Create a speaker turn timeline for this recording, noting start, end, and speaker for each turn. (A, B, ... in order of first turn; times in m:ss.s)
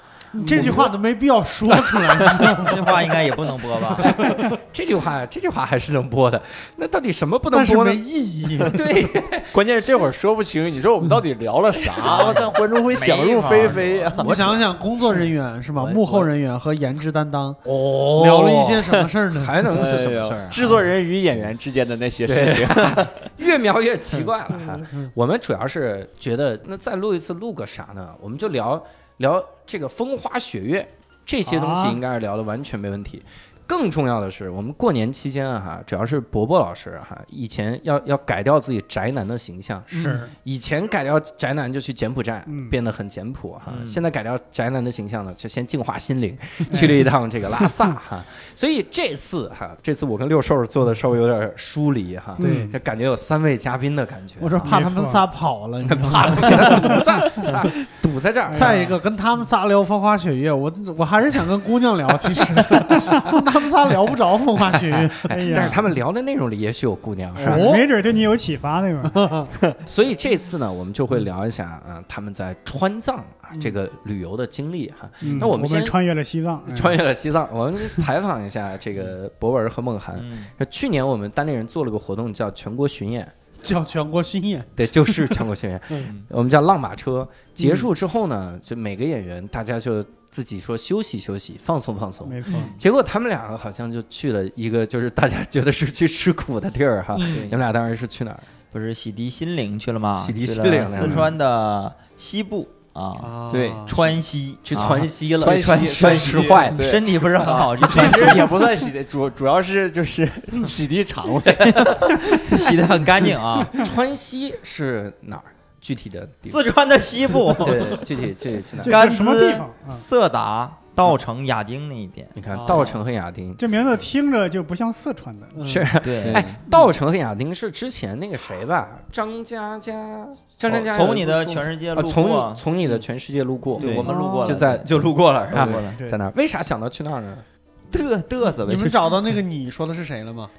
0:00.3-0:02.8 A
0:00.4-0:00.9 B
0:01.7-0:02.7 B
0:02.5-0:04.2 C
0:04.0-0:09.5 B
0:04.1-0:04.4 A
0:07.5-0:08.9 A
0:09.5-0:14.5 D
0:12.0-0:12.2 B
0:12.0-0:14.2 C
0:14.2-0:19.8 A
0:14.2-0:14.6 B
0:15.8-0:16.3 B
0:17.6-0:20.9 B
0:19.6-0:23.2 D
0:22.2-0:54.7 B
0:24.7-0:25.1 A
0:31.4-0:32.0 E
0:39.9-0:40.3 A
0:39.9-0:40.3 E
0:42.5-0:42.7 E
0:43.7-0:44.0 C
0:46.7-0:47.1 E
0:52.4-0:52.8 E
0:52.4-0:52.7 A
0:54.4-0:57.8 A
0:54.6-0:55.3 E
0:55.8-0:58.9 B
0:58.5-0:58.9 E
0:58.5-1:05.8 A
1:04.7-1:07.7 B
1:05.3-1:05.8 E
1:07.4-1:07.8 A
1:07.4-1:09.2 E
1:09.1-1:09.5 A
1:09.8-1:16.0 B
1:15.2-1:17.0 E
1:16.7-1:23.3 B
1:20.2-1:20.5 C
1:23.6-1:25.4 A
1:24.8-1:38.4 B
1:26.0-1:26.3 C
1:32.2-1:32.7 E
1:32.5-1:32.8 A
1:37.1-1:37.5 A
1:37.2-1:37.6 D
1:37.3-1:37.5 C
1:38.7-1:48.6 C
1:40.2-1:41.4 B
1:43.2-1:44.1 A
1:43.5-1:44.0 D
1:44.6-1:46.8 B
1:45.4-1:52.3 D
1:48.0-1:48.2 B
1:51.4-1:52.6 B
1:51.6-1:53.8 C
1:53.7-1:56.6 B
1:56.4-1:58.1 C
1:57.5-1:59.0 B
1:58.8-2:00.0 E
1:58.8-2:03.0 C
2:02.4-2:03.6 B
2:02.5-2:02.9 A
2:03.6-2:05.6 E
2:05.5-2:05.9 A
2:05.6-2:17.4 B
2:06.0-2:06.5 C
2:06.2-2:06.6 D
2:10.7-2:12.6 C
2:13.8-2:16.0 C
2:13.8-2:14.5 A
2:15.5-2:15.8 D
2:17.9-2:19.2 C
2:18.6-2:20.5 A